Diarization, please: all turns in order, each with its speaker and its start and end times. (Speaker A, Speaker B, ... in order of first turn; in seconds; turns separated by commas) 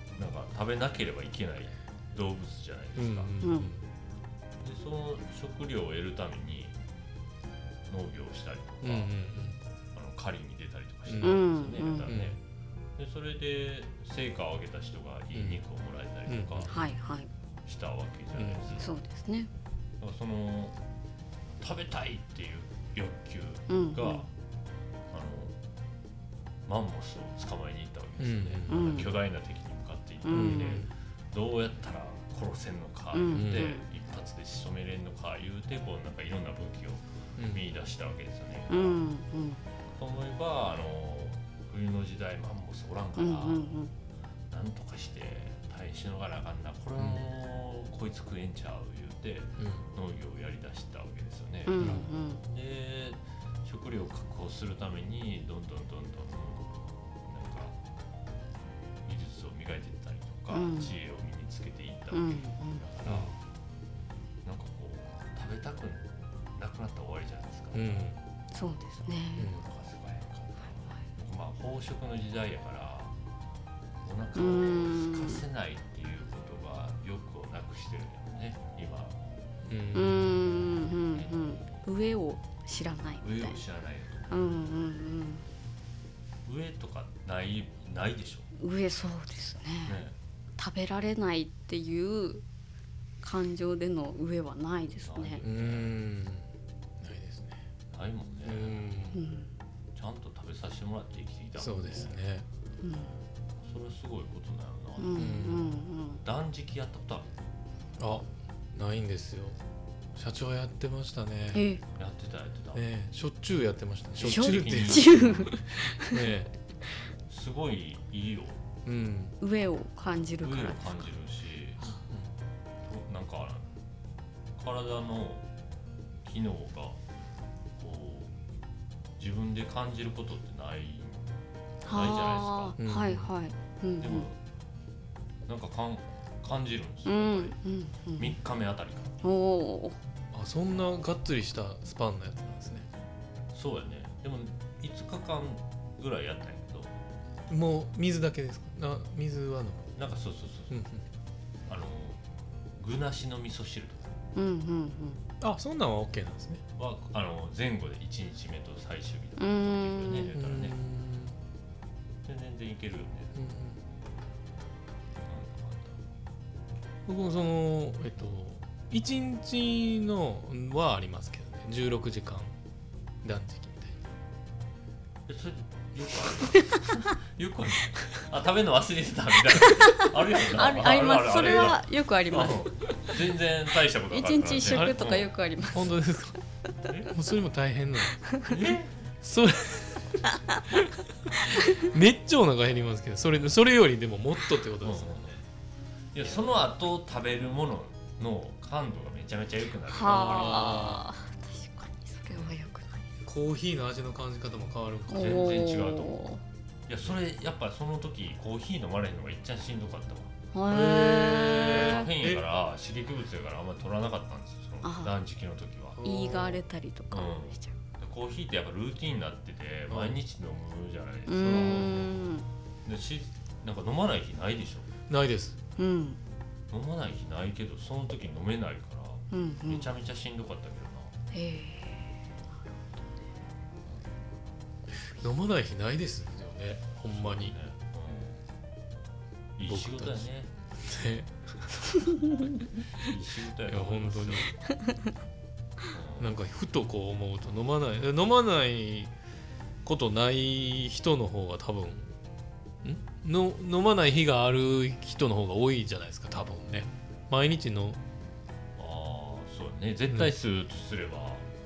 Speaker A: 0.1-3.3, Speaker B: 3.0-3.8, Speaker C: 3.4-3.7, Speaker A: 4.6-6.8, Speaker A: 7.9-9.1, Speaker B: 8.8-9.6, Speaker A: 9.9-12.3, Speaker B: 11.1-11.4, Speaker C: 11.2-12.2, Speaker B: 12.1-12.4, Speaker A: 12.9-16.7, Speaker B: 15.3-15.6, Speaker B: 16.3-16.9, Speaker C: 16.7-17.3, Speaker A: 17.6-18.9, Speaker B: 18.4-18.9, Speaker C: 18.8-19.5, Speaker A: 20.0-20.8, Speaker A: 21.6-24.3, Speaker C: 23.7-24.2, Speaker A: 25.1-25.6, Speaker A: 26.6-39.0, Speaker B: 28.2-29.1, Speaker C: 28.7-29.1, Speaker C: 30.2-30.8, Speaker B: 30.3-30.9, Speaker C: 33.1-33.8, Speaker B: 33.3-33.7, Speaker B: 37.4-37.6, Speaker C: 38.7-39.6, Speaker A: 40.0-43.7, Speaker C: 43.2-43.9, Speaker A: 44.5-57.8, Speaker B: 47.0-47.2, Speaker B: 49.6-49.9, Speaker C: 51.7-52.4, Speaker B: 51.8-52.0, Speaker A: 59.0-63.4, Speaker C: 60.5-60.9, Speaker C: 62.1-62.8, Speaker B: 63.0-63.4, Speaker A: 64.4-68.1, Speaker B: 67.7-68.2, Speaker C: 68.5-69.5, Speaker B: 69.4-69.6, Speaker A: 69.5-73.1, Speaker A: 74.0-79.2, Speaker C: 74.3-75.4, Speaker B: 79.7-80.8, Speaker C: 79.9-83.6, Speaker A: 81.1-81.6, Speaker A: 83.2-84.7, Speaker C: 84.3-85.4, Speaker A: 86.4-88.5, Speaker C: 88.6-90.0, Speaker A: 89.8-90.2, Speaker C: 90.6-92.4, Speaker C: 93.2-95.4, Speaker A: 95.0-96.0, Speaker B: 95.4-96.5, Speaker B: 97.0-97.6, Speaker A: 97.9-98.9, Speaker B: 98.4-99.2, Speaker C: 99.1-99.5, Speaker A: 99.9-102.1, Speaker B: 101.6-102.5, Speaker C: 102.8-103.2, Speaker A: 103.6-105.4, Speaker C: 105.0-106.2, Speaker B: 105.2-105.7, Speaker A: 106.2-107.3, Speaker B: 108.0-109.6, Speaker B: 110.2-111.6, Speaker C: 111.5-111.8, Speaker A: 112.0-112.8, Speaker B: 112.7-116.5, Speaker A: 114.2-115.6, Speaker C: 114.2-116.3, Speaker A: 117.3-118.6, Speaker B: 118.8-119.3, Speaker C: 119.4-121.1, Speaker A: 120.4-121.8, Speaker A: 122.8-123.7, Speaker A: 124.5-125.5, Speaker A: 126.2-127.0, Speaker A: 127.8-128.3, Speaker A: 129.2-132.8, Speaker C: 131.8-134.3, Speaker B: 132.8-133.3, Speaker A: 134.0-134.4, Speaker A: 135.4-137.6, Speaker C: 137.1-138.4, Speaker A: 138.2-139.1, Speaker C: 139.2-140.0, Speaker B: 140.3-142.8, Speaker A: 143.5-146.9, Speaker B: 147.5-149.9, Speaker A: 150.0-150.8, Speaker B: 150.7-151.0, Speaker A: 151.7-152.2, Speaker A: 152.8-154.2, Speaker C: 154.3-155.2, Speaker B: 155.4-156.6, Speaker A: 156.8-160.8, Speaker C: 159.4-160.3, Speaker B: 160.3-161.3, Speaker A: 162.2-163.3, Speaker B: 163.3-163.8, Speaker A: 165.2-166.0, Speaker B: 167.1-172.5, Speaker B: 173.2-174.0, Speaker A: 175.2-185.3, Speaker C: 176.5-176.8, Speaker C: 179.8-182.7, Speaker C: 184.1-185.9, Speaker B: 184.7-185.0, Speaker B: 185.7-186.4, Speaker B: 187.1-188.2, Speaker A: 188.5-188.9, Speaker B: 189.2-190.2, Speaker B: 191.5-195.3, Speaker A: 194.8-195.4, Speaker A: 196.1-200.9, Speaker C: 199.9-203.1, Speaker B: 200.0-201.1, Speaker B: 203.2-205.6, Speaker C: 205.1-206.4, Speaker A: 205.2-206.2, Speaker A: 206.9-210.3, Speaker C: 210.5-212.0, Speaker B: 210.7-212.4, Speaker A: 211.2-216.6, Speaker C: 214.8-215.1, Speaker C: 216.0-217.7, Speaker A: 217.1-222.2, Speaker B: 219.9-220.2, Speaker C: 221.3-222.5, Speaker A: 222.8-224.9, Speaker B: 225.1-225.6, Speaker C: 225.8-226.2, Speaker A: 226.7-231.1, Speaker C: 229.3-229.9, Speaker C: 231.3-232.1, Speaker B: 235.2-237.6, Speaker A: 237.1-238.4, Speaker A: 239.6-240.5, Speaker B: 239.7-240.3, Speaker B: 240.8-243.1, Speaker A: 243.0-244.5, Speaker B: 243.7-244.5, Speaker A: 245.9-246.3, Speaker B: 246.2-249.1, Speaker B: 249.8-252.1, Speaker B: 252.8-258.0, Speaker A: 258.8-261.4